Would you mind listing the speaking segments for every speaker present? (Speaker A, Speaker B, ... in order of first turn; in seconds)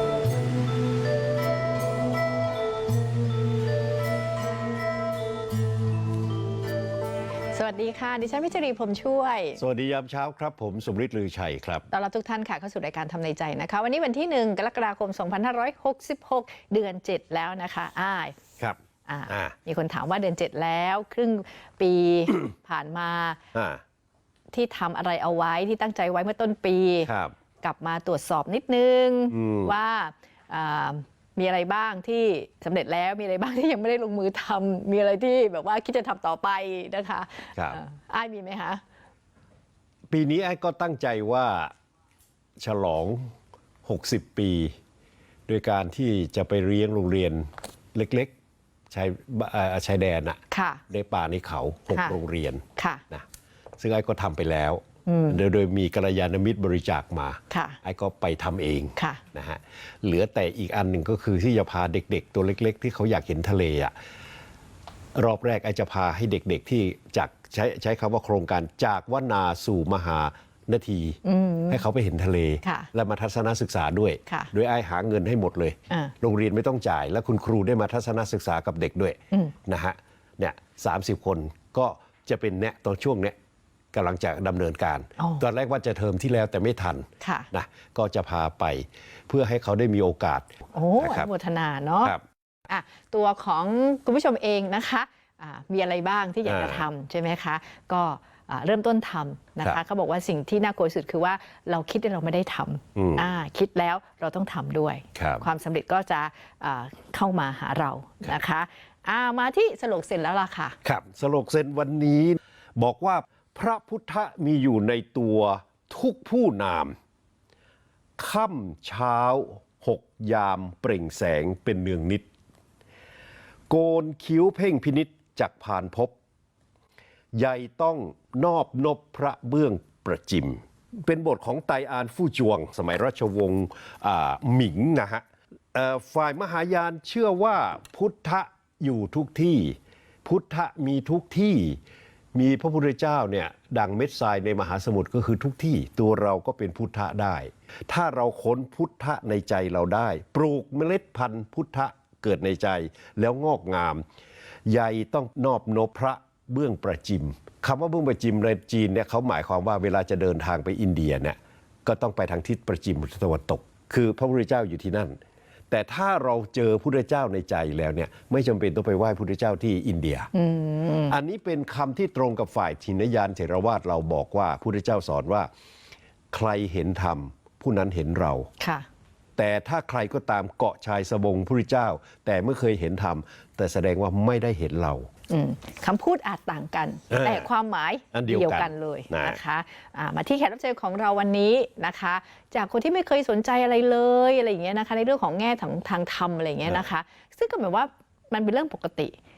Speaker A: 7.5-9.6, 11.9-18.4, 19.1-23.4, 24.5-27.1, 27.6-38.8, 50.5-50.8, 51.9-52.2, 52.8-53.0, 55.1-55.4, 57.5-57.8, 59.0-59.2, 71.2-71.8, 72.6-72.9, 85.2-85.4, 87.2-87.5, 90.7-92.2, 92.7-110.8, 170.3-171.2, 178.6-178.9, 185.3-199.2
Speaker B: 9.6-11.9, 18.6-19.6, 23.5-23.8, 27.1-27.4, 29.3-29.8, 40.1-41.7, 42.6-43.3, 43.9-44.8, 45.5-48.3, 48.9-50.4, 50.9-53.3, 53.8-63.9, 65.2-83.4, 83.9-91.3, 96.5-96.9, 103.0-103.3, 105.2-105.4, 110.8-117.0, 118.2-122.3, 123.7-126.1, 127.3-141.8, 142.3-154.1, 154.7-165.2, 165.7-170.3, 171.1-175.5, 176.3-178.5, 179.4-185.1, 187.1-187.5, 188.1-189.4